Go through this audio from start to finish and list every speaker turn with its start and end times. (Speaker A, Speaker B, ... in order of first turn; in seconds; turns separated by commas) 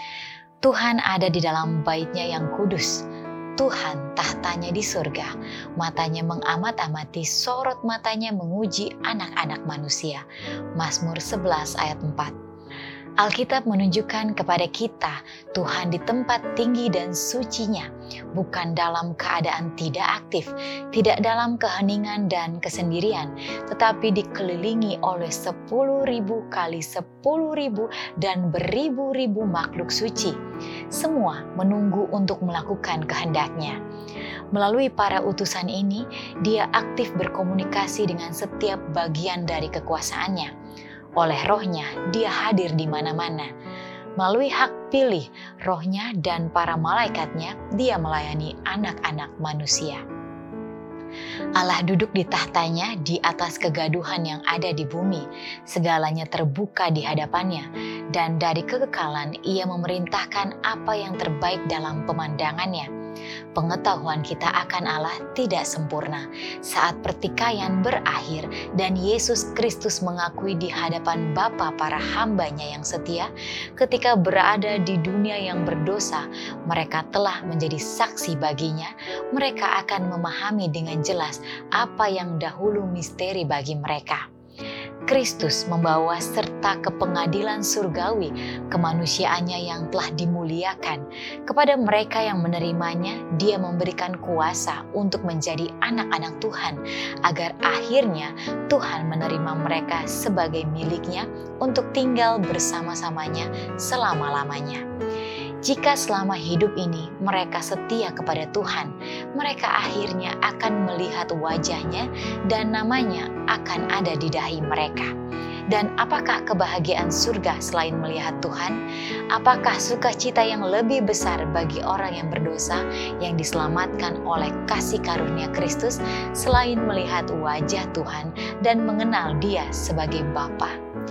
Speaker A: 0.6-3.0, Speaker A: 3.6-10.2, Speaker A: 10.8-12.3, Speaker A: 13.2-30.4, Speaker A: 30.9-33.8, Speaker A: 34.5-40.5, Speaker A: 41.2-43.5, Speaker A: 44.2-50.0, Speaker A: 51.5-62.9, Speaker A: 63.5-84.2, Speaker A: 85.1-104.8, Speaker A: 105.6-115.1, Speaker A: 115.7-118.8, Speaker A: 119.3-130.8